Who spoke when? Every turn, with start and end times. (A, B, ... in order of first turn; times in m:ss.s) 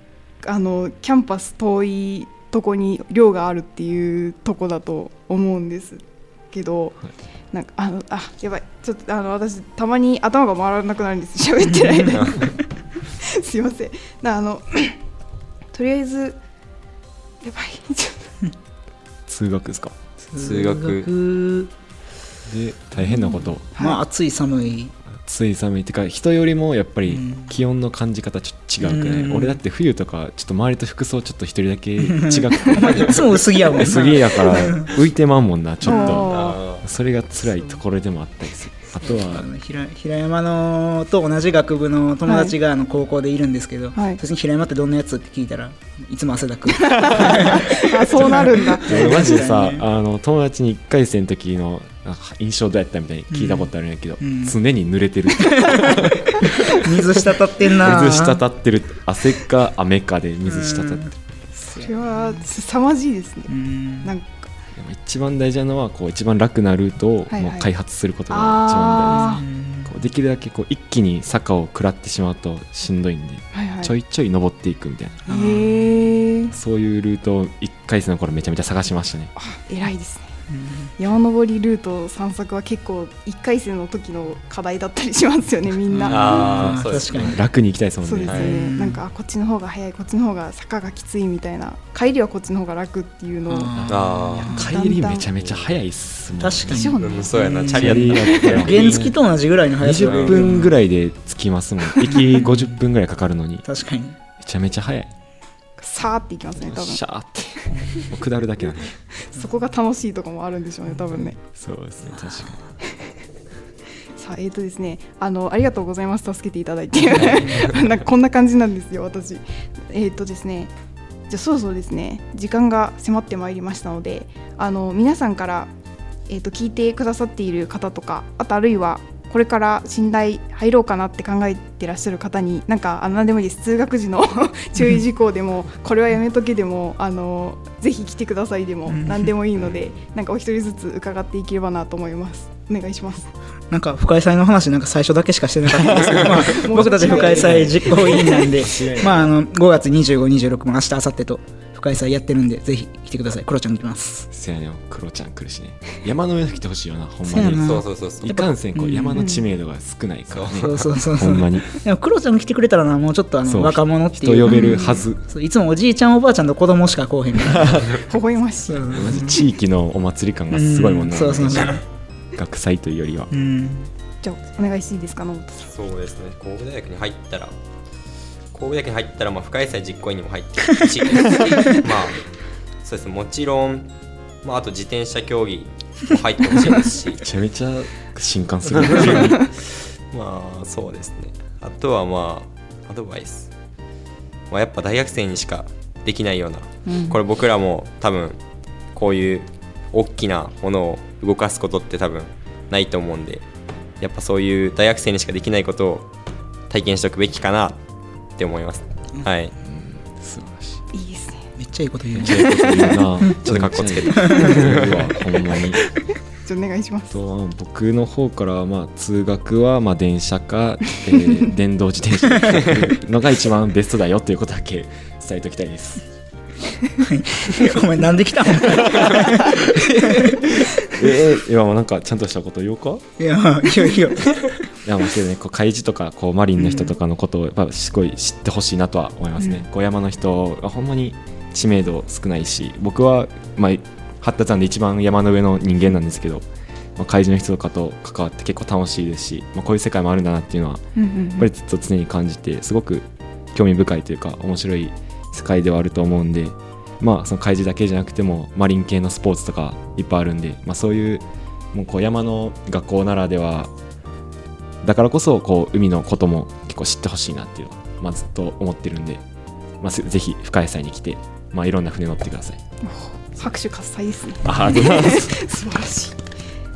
0:00.4-0:07.0 A
0:07.5-0:15.0 A
0:12.1-0:12.4 B
0:15.7-0:16.4 A
0:17.4-0:18.4 A
0:19.3-0:20.0 C
0:20.2-0:21.7 D
0:20.4-0:21.1 B
0:22.5-0:23.6 C
0:23.0-0:24.9 D
0:23.8-0:24.0 A
0:25.2-0:39.5 C
0:27.1-0:27.5 D
0:28.8-0:29.6 D
0:32.0-0:34.9 D
0:35.8-0:36.6 A
0:36.1-0:36.9 B
0:39.0-0:49.8 D
0:42.3-0:42.5 A
0:44.0-0:44.2 A
0:46.8-0:49.3 A
0:48.1-1:01.1 C
0:53.3-0:53.7 D
0:54.2-0:54.6 D
0:55.4-0:58.4 D
1:00.5-1:02.4 D
1:01.8-1:03.5 A
1:03.5-1:04.1 D
1:04.0-1:04.5 A
1:04.8-1:15.2 C
1:07.3-1:07.7 A
1:08.3-1:09.4 A
1:09.1-1:09.9 D
1:13.5-1:13.9 A
1:15.3-1:16.2 D
1:15.3-1:16.5 A
1:16.5-1:19.3 C
1:19.4-1:20.3 A
1:20.5-1:20.9 D
1:21.0-1:26.8 A
1:25.9-1:27.4 D
1:26.1-1:27.4 B
1:26.6-1:28.5 C
1:28.0-1:33.8 A
1:28.2-1:28.6 B
1:28.4-1:29.0 D
1:33.5-1:34.8 D
1:33.8-1:37.0 C
1:33.9-1:34.6 B
1:34.6-1:35.3 A
1:36.4-1:40.8 D
1:36.7-1:37.6 A
1:37.0-1:39.1 B
1:37.6-1:39.2 C
1:39.8-1:43.6 C
1:40.0-1:40.5 B
1:42.0-1:42.8 D
1:43.6-1:44.2 D
1:44.4-1:45.1 C
1:45.8-1:47.0 A
1:46.6-1:49.0 C
1:49.2-1:51.4 A
1:51.0-1:51.3 D
1:51.5-1:52.6 C
1:52.2-1:52.5 D
1:54.2-2:00.7 A
2:01.3-2:05.7 A
2:06.3-2:23.3 A
2:18.9-2:19.4 D
2:23.7-2:34.3 D
2:26.1-2:28.5 A
2:26.9-2:27.9 C
2:27.1-2:27.6 B
2:28.7-2:29.2 B
2:34.3-2:41.8 C
2:37.3-2:39.3 D
2:37.4-2:38.4 B
2:39.2-2:39.5 A
2:40.3-2:40.7 B
2:40.6-2:47.9 D
2:43.4-2:45.2 C
2:44.5-2:45.0 A
2:47.5-2:47.9 C
2:48.0-2:49.2 A
2:48.6-2:49.4 D
2:48.9-2:51.8 C
2:50.5-2:51.8 D
2:52.4-2:53.3 C
2:53.3-2:53.9 D
2:54.2-2:55.7 A
2:55.7-2:57.5 B
2:58.5-3:02.2 B
3:02.8-3:03.9 B
3:04.4-3:07.2 B
3:06.6-3:09.5 C
3:08.7-3:13.5 B
3:14.5-3:18.4 B
3:16.9-3:17.2 D
3:19.0-3:23.4 B
3:24.0-3:26.1 B
3:26.7-3:27.8 B
3:28.4-3:29.5 B
3:29.6-3:30.8 C
3:30.9-3:31.5 A
3:31.6-3:33.4 D
3:32.2-3:35.8 C
3:33.4-3:35.3 B
3:34.2-3:34.6 D
3:36.4-3:37.2 A
3:37.1-3:46.0 C
3:42.6-3:42.8 B
3:47.0-3:51.0 D
3:48.8-3:53.1 C
3:53.2-3:54.5 D
3:54.8-4:06.4 C
3:56.6-3:56.9 D
4:07.0-4:10.8 C
4:11.0-4:11.5 A
4:11.4-4:23.7 C
4:24.8-4:29.2 C
4:29.8-4:32.6 C
4:32.8-4:36.2 A
4:34.4-4:35.4 C